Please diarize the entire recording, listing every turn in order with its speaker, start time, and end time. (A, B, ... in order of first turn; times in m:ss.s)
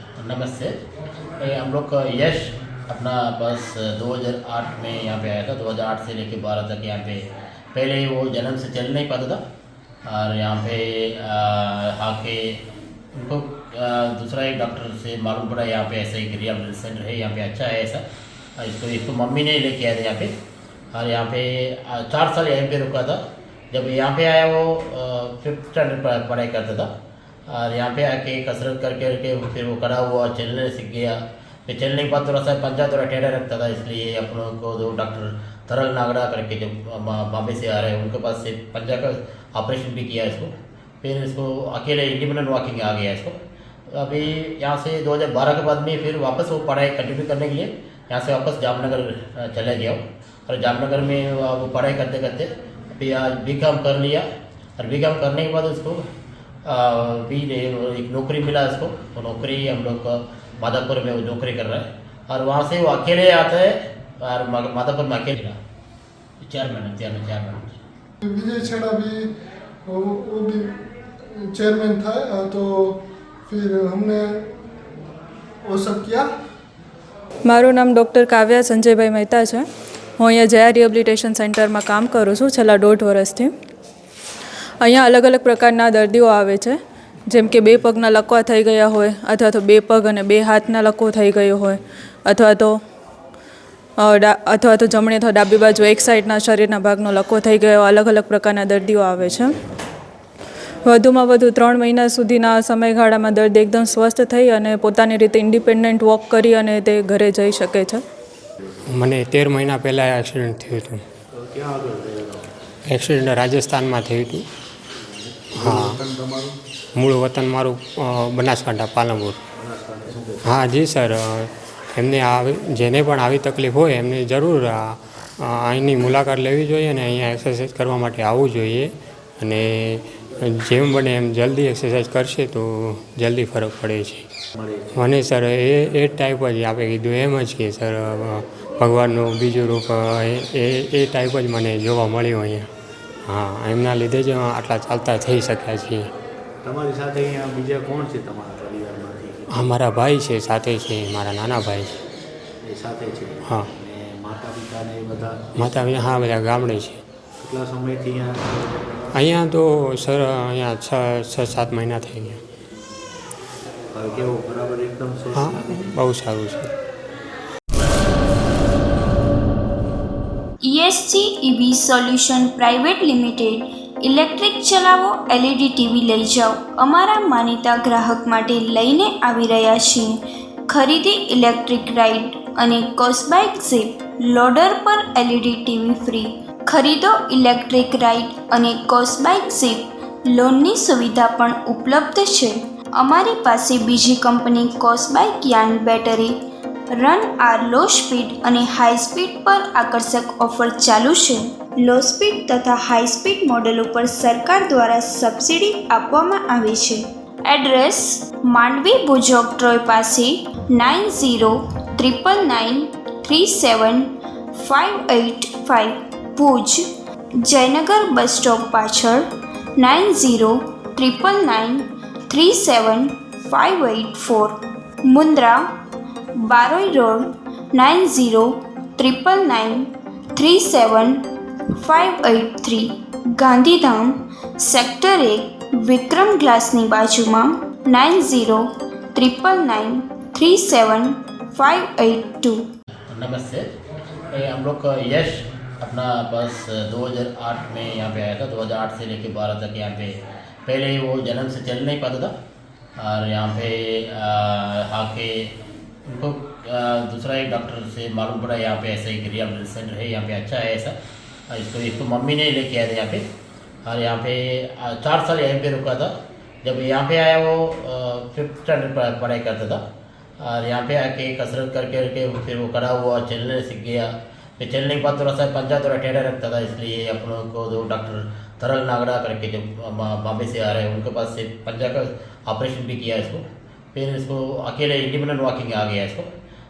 0:00.2-0:00.7 A
0:01.4-0:07.2 A
0:07.7-0:09.4 A
0:10.1-0:12.6 A
0:13.2-0:18.0 A
0:18.6-0:20.3 A
0:20.9-0:23.2 A
0:23.7-0:26.9 A
0:27.5-0:40.5 A
0:41.0-0:43.3 A
0:43.9-0:54.2 A
0:54.8-0:56.0 A
0:56.7-1:05.6 A
1:06.4-1:07.8 A
1:08.2-1:09.3 B
1:09.9-1:10.8 B
1:11.3-1:14.5 B
1:15.6-1:16.3 B
1:17.4-1:19.6 C
1:20.2-1:23.5 C
1:24.8-1:26.8 C
1:27.3-1:32.8 C
1:34.0-1:39.6 C
1:40.9-1:48.0 C
1:48.9-1:51.0 D
1:51.3-1:52.5 E
1:52.9-1:54.4 D
1:54.9-1:56.6 E
1:55.5-1:56.0 D
1:57.0-1:59.4 D
1:59.6-2:00.5 E
2:00.4-2:14.3 D
2:14.6-2:15.1 E
2:14.9-2:22.7 D
2:23.2-2:26.1 D
2:26.6-2:29.7 E
2:29.5-2:32.0 D
2:32.6-2:36.3 E
2:33.4-2:33.7 D
2:35.6-2:37.0 D
2:37.4-2:39.1 E
2:39.1-2:42.4 D
2:43.9-2:45.9 E
2:45.3-2:46.7 D
2:50.6-3:00.2 F
3:00.7-3:16.4 F
3:16.9-3:36.8 F
3:37.4-3:45.7 F
3:46.4-3:51.2 F
3:51.8-4:02.7 F
4:03.1-4:03.6 A
4:04.3-4:10.1 A
4:10.6-4:12.3 A
4:13.0-4:15.5 A
4:16.1-4:20.9 A
4:21.5-4:23.2 A
4:23.8-4:26.1 A
4:26.6-4:29.8 A
4:30.4-4:43.4 A
4:43.9-4:46.3 A